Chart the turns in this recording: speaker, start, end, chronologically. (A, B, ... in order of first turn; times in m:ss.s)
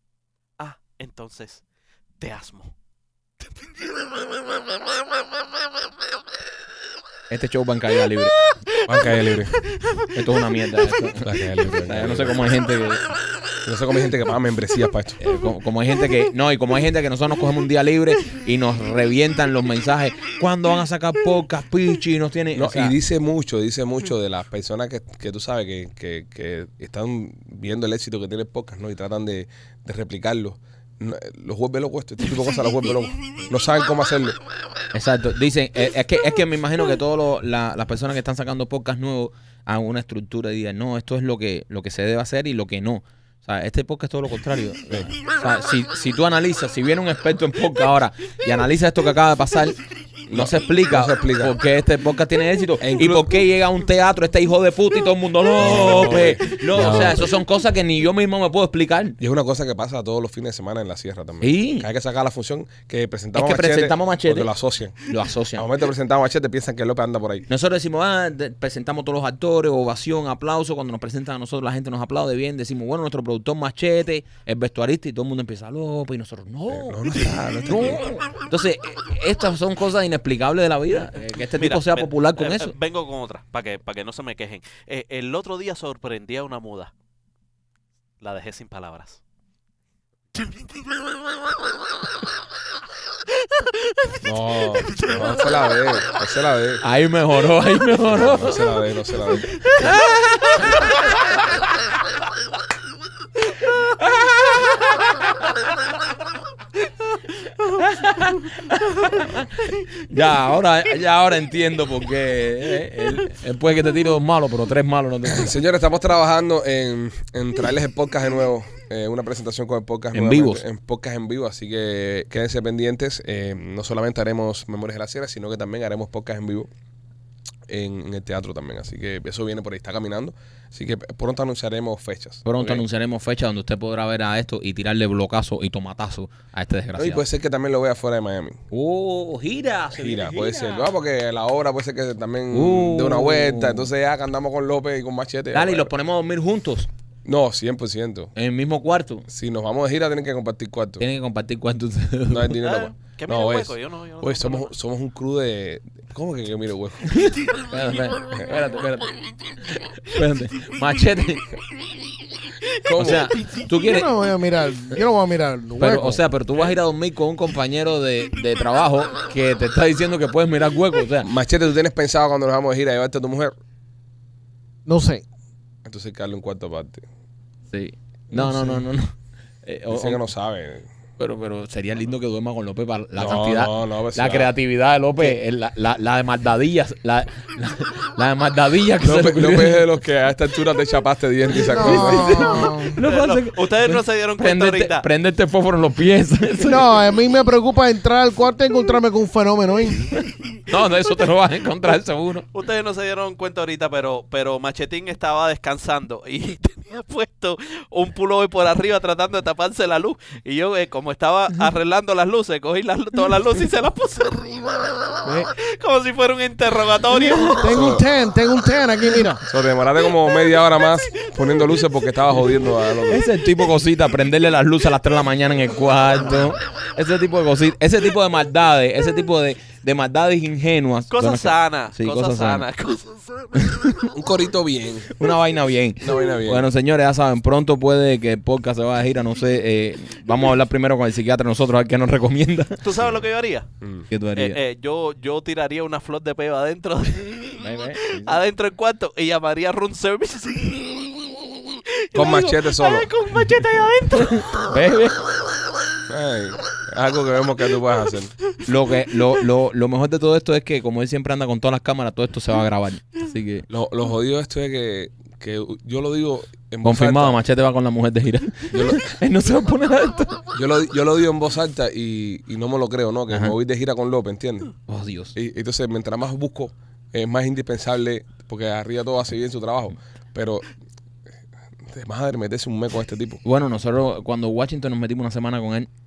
0:00.6-0:01.6 A
0:02.2-0:02.7 A
0:07.3-0:08.4 B
0:08.8-0:09.6 C
0:09.6-0:10.1 A
0:10.1-0:13.1 B
0:11.2-0:12.4 C
0:13.6-0:15.2 C
0:15.2-0:23.0 B
0:22.6-0:34.4 C
0:34.9-0:59.2 B
0:50.3-0:51.6 C
0:52.8-0:53.3 C
0:55.6-0:57.4 C
0:59.2-1:05.0 C
1:01.4-1:01.9 B
1:03.4-1:04.5 B
1:05.0-1:05.7 B
1:05.6-1:07.5 C
1:07.5-1:22.8 B
1:16.7-1:18.1 C
1:21.6-1:26.9 A
1:28.2-1:29.2 A
1:30.4-1:31.1 A
1:33.4-1:35.7 A
1:34.2-1:36.8 C
1:36.8-1:38.7 B
1:38.1-1:39.5 C
1:39.4-1:41.6 B
1:39.6-1:39.9 A
1:43.8-1:45.4 B
1:47.8-1:55.6 B
1:55.3-2:06.7 C
2:00.1-2:00.6 B
2:07.7-2:12.8 C
2:12.4-2:17.2 B
2:17.0-2:18.6 C
2:18.7-2:20.9 B
2:19.9-2:25.9 C
2:22.5-2:23.9 B
2:25.5-2:26.9 B
2:27.3-2:28.3 C
2:28.4-2:29.3 B
2:29.3-2:31.0 C
2:31.0-2:32.6 B
2:32.3-2:37.3 C
2:32.6-2:34.7 A
2:37.2-2:41.5 B
2:42.8-2:43.3 C
2:42.9-2:44.1 B
2:43.1-2:43.7 A
2:43.8-2:46.2 D
2:45.8-2:51.3 B
2:51.2-2:53.6 C
2:54.9-2:55.2 D
2:55.8-2:57.0 C
2:57.7-3:00.2 B
2:58.3-2:58.8 D
2:59.9-3:00.9 C
3:01.2-3:09.9 B
3:03.2-3:04.5 C
3:09.0-3:12.4 C
3:11.7-3:13.0 D
3:11.7-3:16.9 B
3:13.0-3:15.1 A
3:16.6-3:20.1 D
3:20.2-3:22.5 B
3:22.5-3:37.9 A
3:35.2-3:35.5 D
3:37.1-3:39.4 D
3:37.7-3:38.0 C
3:39.4-3:43.2 C
3:40.2-3:40.7 A
3:43.1-3:52.7 B
3:51.1-3:53.8 A
3:53.6-3:54.1 B
3:54.1-3:55.1 C
3:55.1-4:02.8 B
3:56.0-3:56.7 C
4:02.8-4:03.7 A
4:03.8-4:04.1 C
4:04.1-4:04.6 B
4:04.4-4:14.8 A
4:07.6-4:08.4 B
4:12.1-4:13.1 C
4:14.2-4:15.2 B
4:16.1-4:18.3 C
4:18.6-4:23.7 B
4:23.7-4:27.4 C
4:26.8-4:30.4 B
4:28.7-4:29.1 C
4:30.5-4:34.7 C
4:34.9-4:35.4 B
4:35.4-4:40.7 C
4:41.9-4:43.4 C
4:43.4-4:45.9 B